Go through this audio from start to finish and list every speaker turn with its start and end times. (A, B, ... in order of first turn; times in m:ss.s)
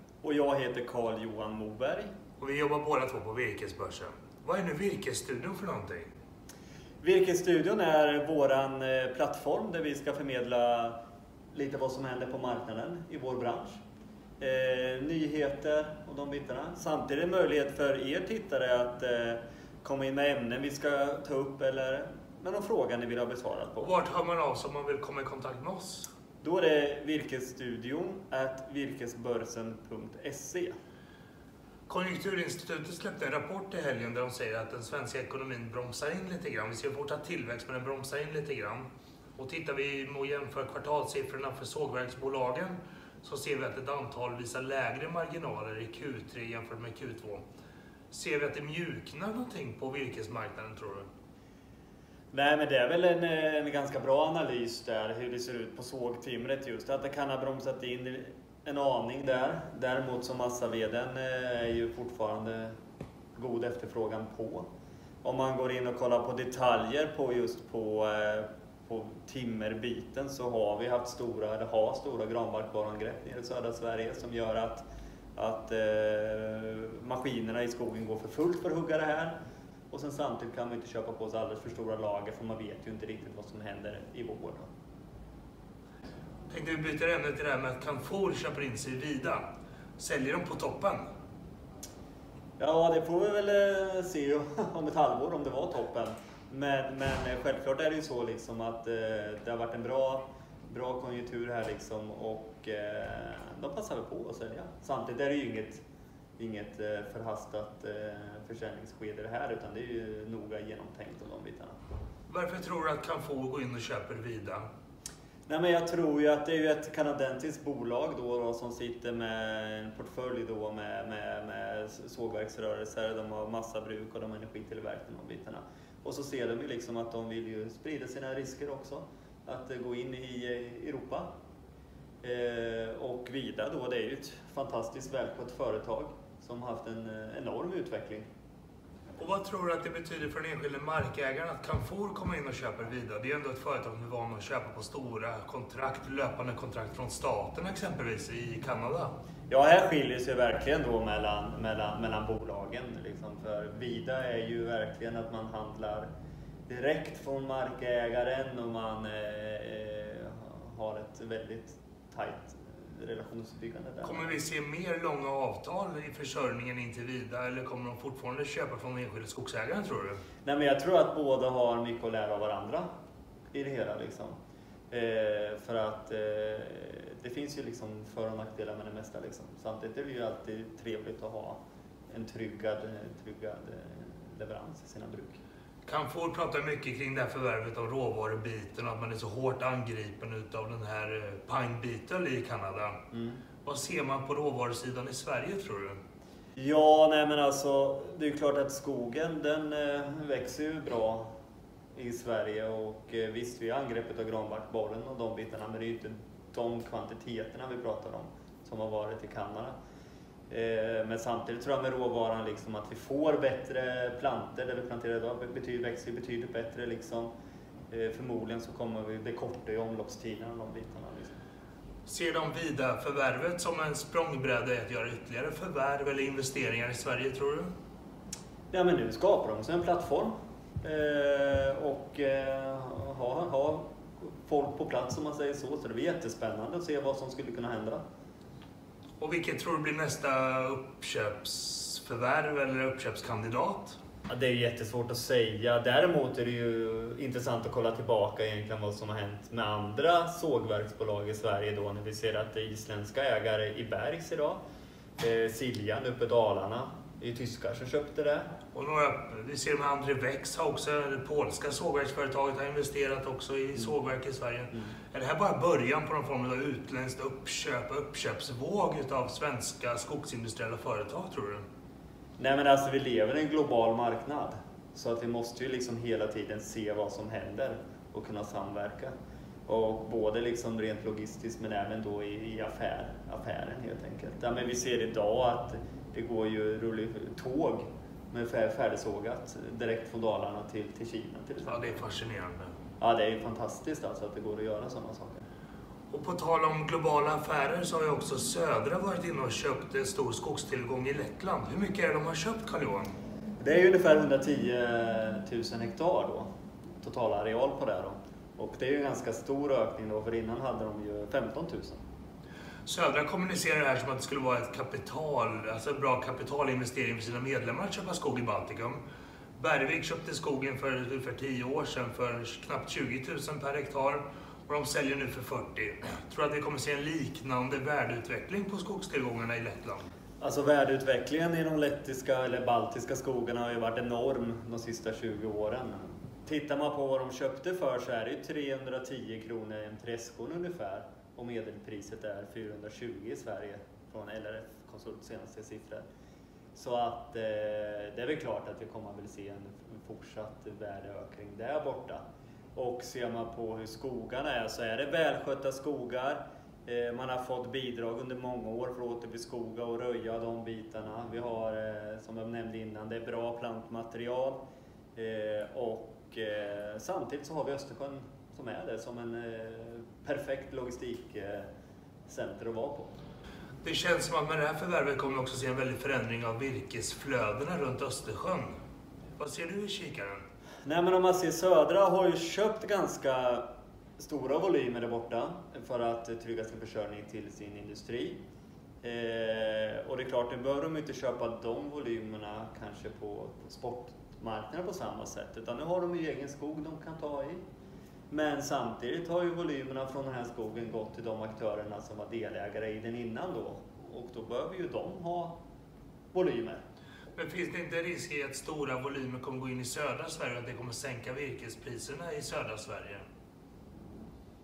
0:00.2-0:02.1 A
0:02.4-0:06.1 B
0:07.0-0:11.0 A
0:11.5-0:13.8 A
0:14.4-0:23.9 A
0:23.8-0:26.1 B
0:26.4-0:30.7 A
0:31.9-0:47.4 B
0:48.1-0:51.1 B
0:52.3-1:02.7 A
1:03.4-1:04.6 A
1:05.2-1:19.3 A
1:19.9-1:24.7 A
1:26.5-1:29.4 B
1:30.0-1:31.0 B
1:32.6-1:45.8 A
1:46.4-1:51.8 A
1:52.3-1:54.6 B
1:55.5-2:11.3 A
2:12.2-2:18.2 A
2:19.2-2:29.1 B
2:29.5-2:36.1 A
2:36.7-2:44.4 A
2:44.0-2:50.2 B
2:50.4-2:52.9 A
2:53.5-2:54.4 A
2:54.9-3:01.6 A
3:02.1-3:05.4 A
3:05.8-3:12.9 B
3:13.1-3:13.4 A
3:13.6-3:16.0 B
3:16.6-3:21.3 A
3:21.9-3:29.7 A
3:30.5-3:37.3 A
3:37.9-3:41.4 A
3:42.0-3:47.7 B
3:48.7-3:58.0 A
3:59.2-4:04.0 B
4:04.3-4:14.6 A
4:15.2-4:18.5 A
4:18.7-4:31.6 B
4:32.4-4:39.1 A
4:39.7-4:52.0 A
4:51.7-4:52.7 B
4:53.0-4:55.4 A
4:56.1-5:03.1 B
5:03.6-5:06.5 A
5:07.0-5:12.0 A
5:12.8-5:19.0 B
5:19.6-5:30.0 B
5:30.4-5:46.0 A
5:46.7-5:52.2 A
5:52.7-6:04.6 A
6:05.1-6:11.7 A
6:12.3-6:13.1 A
6:13.8-6:18.7 B
6:19.4-6:20.4 B
6:20.8-6:23.6 A
6:24.2-6:28.4 A
6:29.0-6:37.6 A
6:38.3-6:45.6 A
6:46.3-6:46.8 A
6:47.4-6:53.2 B